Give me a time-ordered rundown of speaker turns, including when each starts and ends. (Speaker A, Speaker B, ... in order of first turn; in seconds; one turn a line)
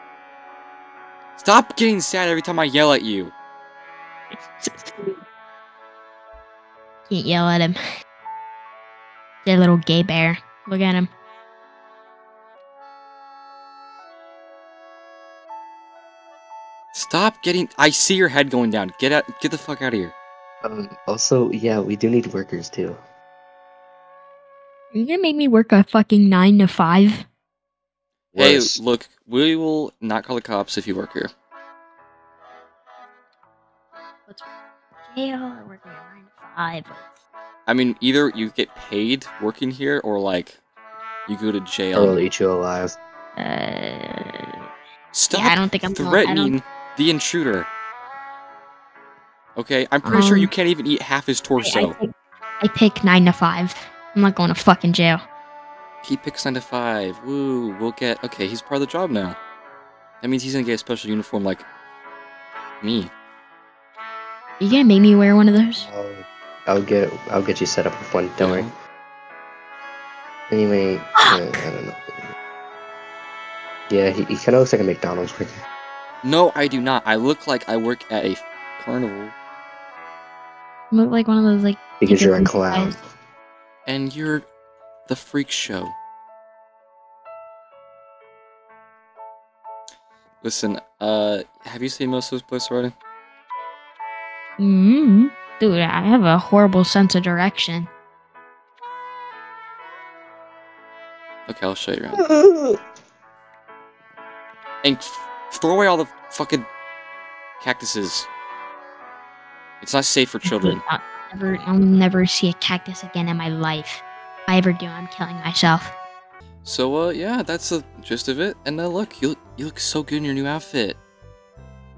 Speaker A: 1.4-3.3
Speaker B: 4.3-5.2
Speaker B: 7.1-7.8
Speaker B: 9.4-11.1
Speaker A: 16.9-20.1
Speaker C: 20.6-23.0
Speaker B: 24.9-27.2
Speaker C: 28.3-28.8
Speaker A: 28.4-31.3
Speaker B: 35.1-37.0
Speaker A: 37.7-40.6
Speaker A: 41.3-42.2
Speaker C: 41.9-43.0
Speaker B: 43.4-44.7
Speaker A: 45.1-47.7
Speaker B: 45.3-46.5
Speaker A: 49.5-51.9
Speaker B: 50.0-50.5
Speaker B: 51.6-55.2
Speaker A: 56.0-59.4
Speaker A: 60.2-61.6
Speaker A: 62.8-63.1
Speaker B: 64.6-65.9
Speaker C: 65.8-68.7
Speaker A: 68.4-68.7
Speaker C: 70.5-72.2
Speaker C: 73.9-75.5
Speaker A: 76.2-79.3
Speaker B: 80.9-82.9
Speaker C: 82.0-83.1
Speaker A: 83.8-84.4
Speaker A: 85.1-85.9
Speaker A: 90.4-92.9
Speaker B: 94.6-97.9
Speaker A: 101.5-102.2
Speaker C: 102.1-102.8
Speaker A: 104.8-106.7
Speaker A: 107.6-108.3
Speaker A: 109.8-110.8
Speaker B: 110.4-115.9
Speaker A: 116.6-121.0